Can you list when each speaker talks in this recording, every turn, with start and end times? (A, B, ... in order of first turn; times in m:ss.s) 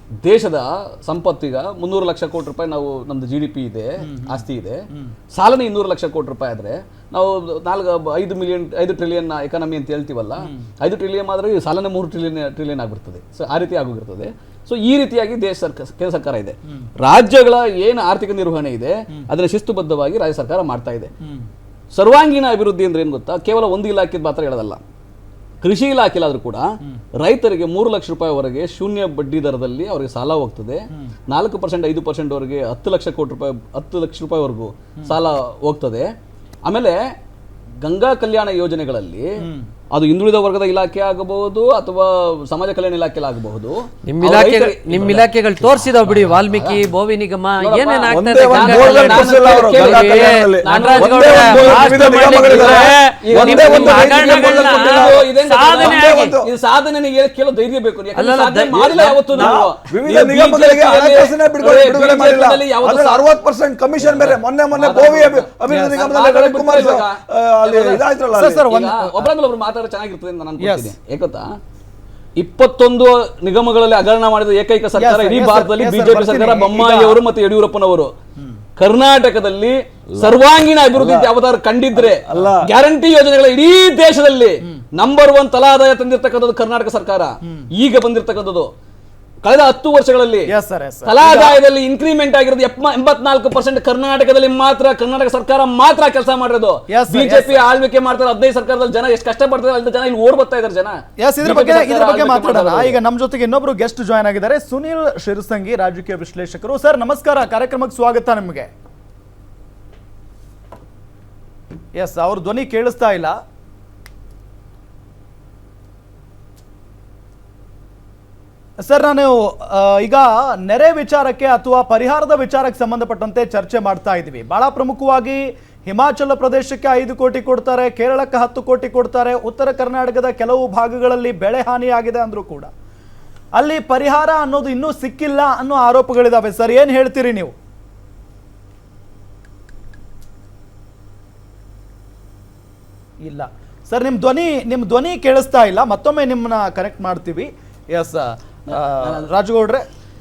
0:00.2-0:21.1 A
0:04.0-0:04.4 B
0:10.4-0:10.7 B
0:21.9-0:24.8 A
0:25.6-0:26.7 A
0:27.2-0:36.1 A
0:36.6-0:37.0 A
0:37.8-0:39.2 A
0:39.4-0:39.7 B
0:39.9-0:46.8 A
0:44.0-0:56.4 C
0:47.6-1:03.3 A
0:48.1-0:56.5 D
0:58.2-0:59.4 C
0:58.7-1:08.6 D
1:04.0-1:08.1 A
1:05.7-1:06.0 B
1:08.3-1:09.3 B
1:08.6-1:11.5 A
1:10.6-1:10.9 B
1:12.4-1:18.1 A
1:15.0-1:17.2 B
1:18.8-1:28.7 A
1:20.1-1:21.3 D
1:21.9-1:22.7 D
1:29.4-1:30.5 A
1:30.5-1:31.6 B
1:31.0-1:43.0 A
1:36.9-1:37.6 B
1:41.2-1:48.7 B
1:52.0-1:53.4 B
1:58.8-2:12.7 B
2:13.5-2:17.5 B
2:23.2-2:29.8 B
2:28.7-2:29.3 A